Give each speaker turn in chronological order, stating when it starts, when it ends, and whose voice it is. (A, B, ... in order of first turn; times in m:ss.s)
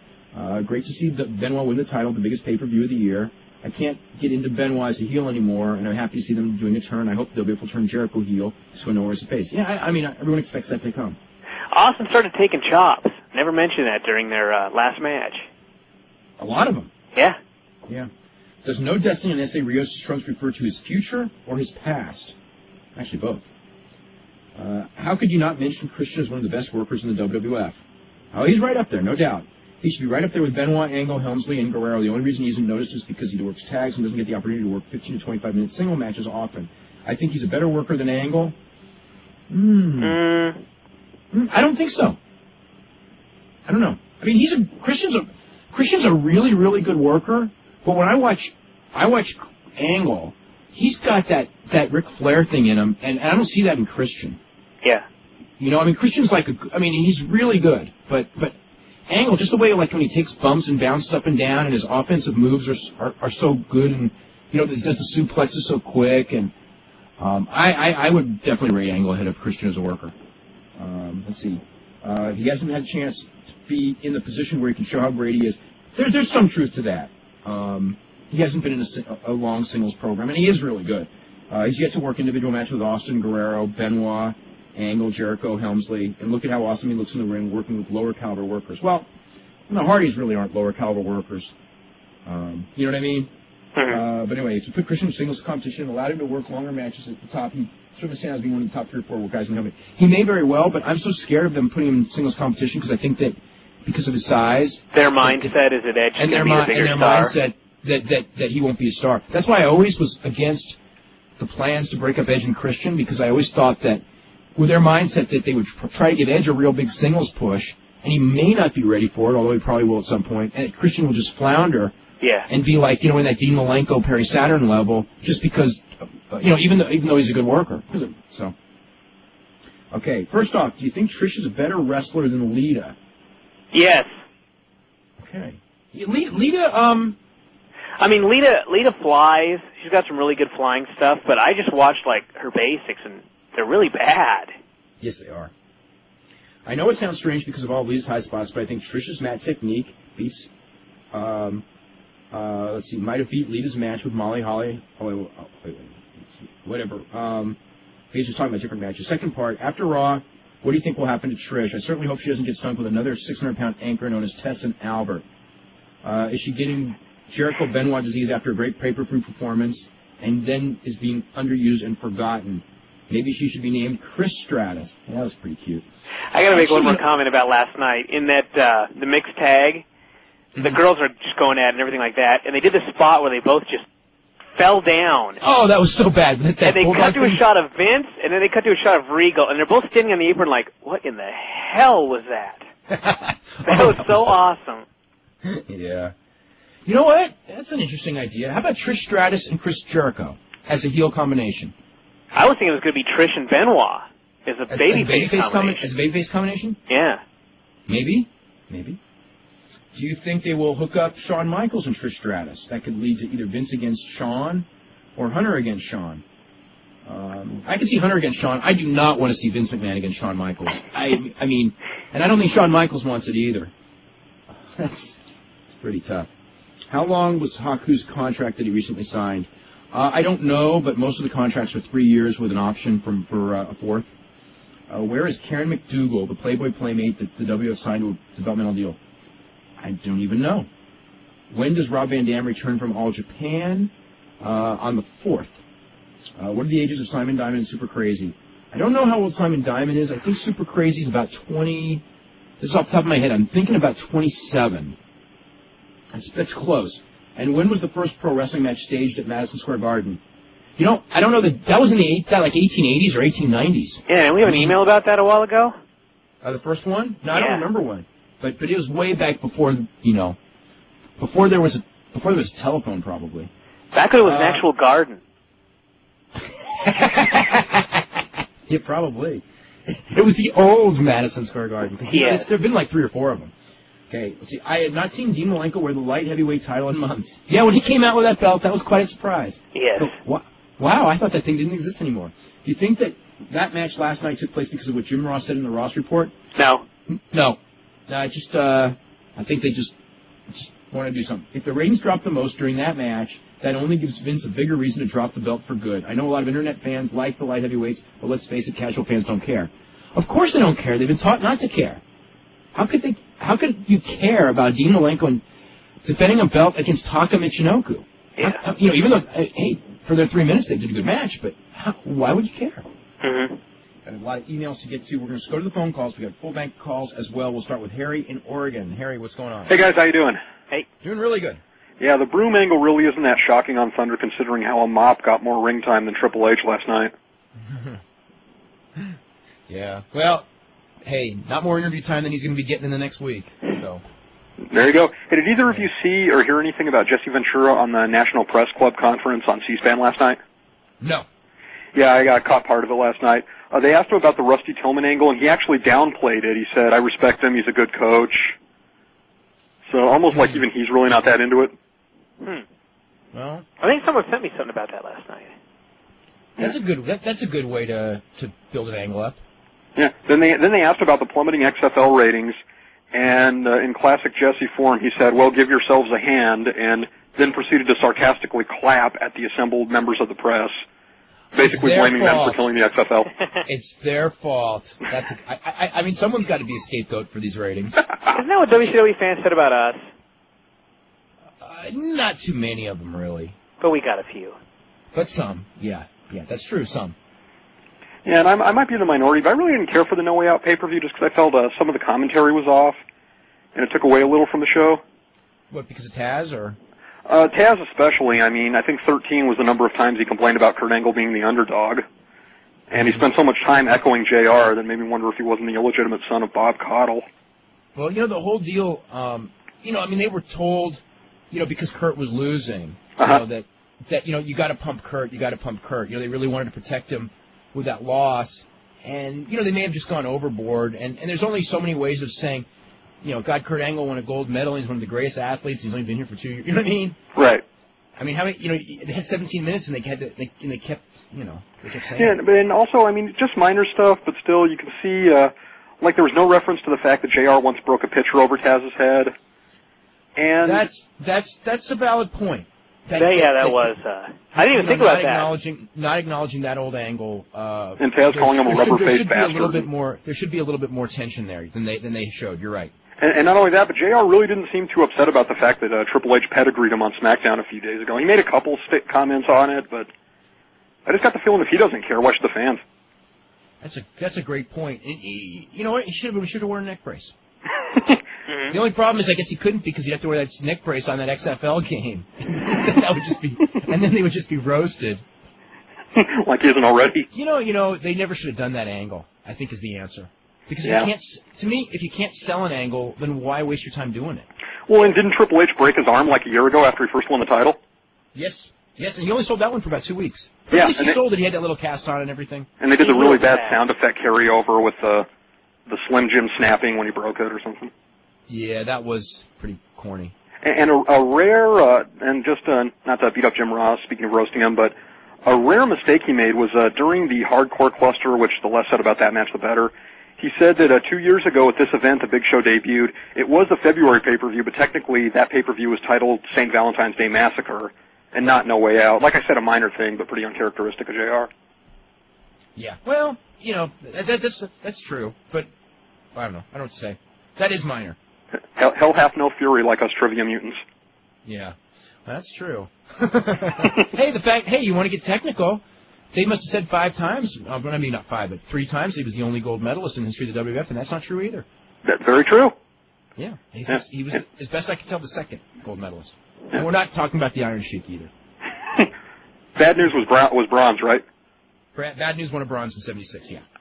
0:00.3-0:11.2 A
0:11.7-0:15.4 B
0:16.4-0:16.9 A
0:18.6-0:22.4 A
0:23.0-0:23.5 A
0:24.6-0:27.8 A
0:28.3-0:38.6 A
0:39.5-0:40.2 A
0:40.0-0:40.6 B
0:41.3-0:42.2 A
0:43.7-0:54.4 A
0:55.6-0:58.6 A
0:59.1-1:06.5 A
1:07.2-1:10.1 A
1:10.8-1:29.1 A
1:29.7-1:31.5 A
1:32.3-1:33.3 A
1:33.8-1:45.6 A
1:44.9-1:47.3 B
1:46.2-1:50.8 A
1:51.4-1:54.0 A
1:54.6-2:01.9 A
2:02.2-2:02.5 B
2:02.5-2:08.5 A
2:09.9-2:13.0 A
2:13.7-2:14.1 B
2:15.2-2:17.2 A
2:18.0-2:24.5 B
2:25.0-2:25.5 A
2:26.7-2:30.5 A
2:31.1-2:31.6 A
2:32.3-2:37.6 A
2:38.1-2:45.2 A
2:46.0-2:55.8 A
2:56.3-2:59.8 B
2:56.5-2:57.0 A
3:00.6-3:00.8 A
3:00.6-3:03.8 B
3:04.6-3:05.4 B
3:05.4-3:07.4 A
3:06.6-3:12.7 B
3:12.9-3:14.4 A
3:13.6-3:14.9 B
3:15.4-3:16.1 A
3:16.9-3:21.7 A
3:22.3-3:25.9 B
3:24.7-3:26.8 A
3:26.9-3:27.2 B
3:27.9-3:29.0 A
3:29.9-3:36.2 A
3:37.1-3:43.7 A
3:44.8-3:46.3 A
3:46.9-3:54.1 A
3:54.9-3:59.0 A
3:59.8-4:00.7 A
4:01.5-4:05.6 A
4:06.4-4:12.0 A
4:12.6-4:15.0 A
4:16.1-4:20.2 A
4:20.8-4:24.8 A
4:24.1-4:25.8 B
4:26.4-4:30.4 A
4:27.3-4:27.6 B
4:31.2-4:33.5 A
4:33.9-4:35.2 B
4:34.2-4:34.6 A
4:36.4-4:38.0 A
4:38.7-4:43.5 A
4:42.1-4:42.5 B
4:44.1-4:56.3 A
4:49.7-4:50.1 B
4:56.6-4:56.9 B
4:57.1-4:59.9 A
5:00.5-5:12.0 A
5:12.8-5:15.4 A
5:16.0-5:22.9 A
5:23.2-5:23.6 B
5:24.1-5:29.8 A
5:29.7-5:30.4 C
5:31.0-5:31.6 A
5:32.0-5:37.1 C
5:37.7-5:38.0 A
5:39.7-5:40.5 A
5:41.0-5:44.0 A
5:44.7-5:50.4 C
5:51.0-5:51.3 A
5:52.0-5:58.5 C
5:59.9-6:01.7 C
6:00.3-6:00.6 A
6:03.3-6:03.7 A
6:03.8-6:05.5 B
6:06.6-6:09.4 A
6:10.0-6:12.6 C
6:13.1-6:20.7 C
6:21.6-6:23.3 C
6:21.6-6:22.6 A
6:23.7-6:28.1 A
6:28.3-6:30.0 B
6:31.6-6:33.6 A
6:33.8-6:34.6 B
6:35.1-6:37.2 A
6:38.2-6:43.0 C
6:43.8-6:45.0 C
6:45.7-6:46.8 A
6:47.3-6:52.0 C
6:52.9-6:57.2 C
6:58.0-7:12.7 A
7:13.2-7:17.2 A
7:17.4-7:17.6 C
7:18.2-7:22.4 A
7:22.2-7:29.3 C
7:30.4-7:30.8 C
7:30.6-7:34.0 A
7:33.2-7:35.5 B
7:34.5-7:42.9 A
7:38.0-7:39.9 C
7:43.2-7:50.1 C
7:51.1-7:52.8 C
7:53.8-7:57.3 A
7:58.5-7:58.8 B
7:58.7-8:05.2 A
8:06.2-8:07.3 C
8:07.3-8:14.5 A
8:14.9-8:17.8 C
8:18.4-8:22.7 A
8:20.7-8:21.2 C
8:22.8-8:25.3 C
8:23.0-8:23.8 B
8:25.9-8:27.9 C
8:28.5-8:30.3 A
8:30.6-8:51.5 C
8:52.8-8:55.7 A
8:56.4-8:58.2 A
8:58.8-9:00.8 C
9:01.5-9:11.7 A
9:12.0-9:12.7 C
9:13.4-9:18.3 A
9:19.8-9:21.2 C
9:22.0-9:23.6 A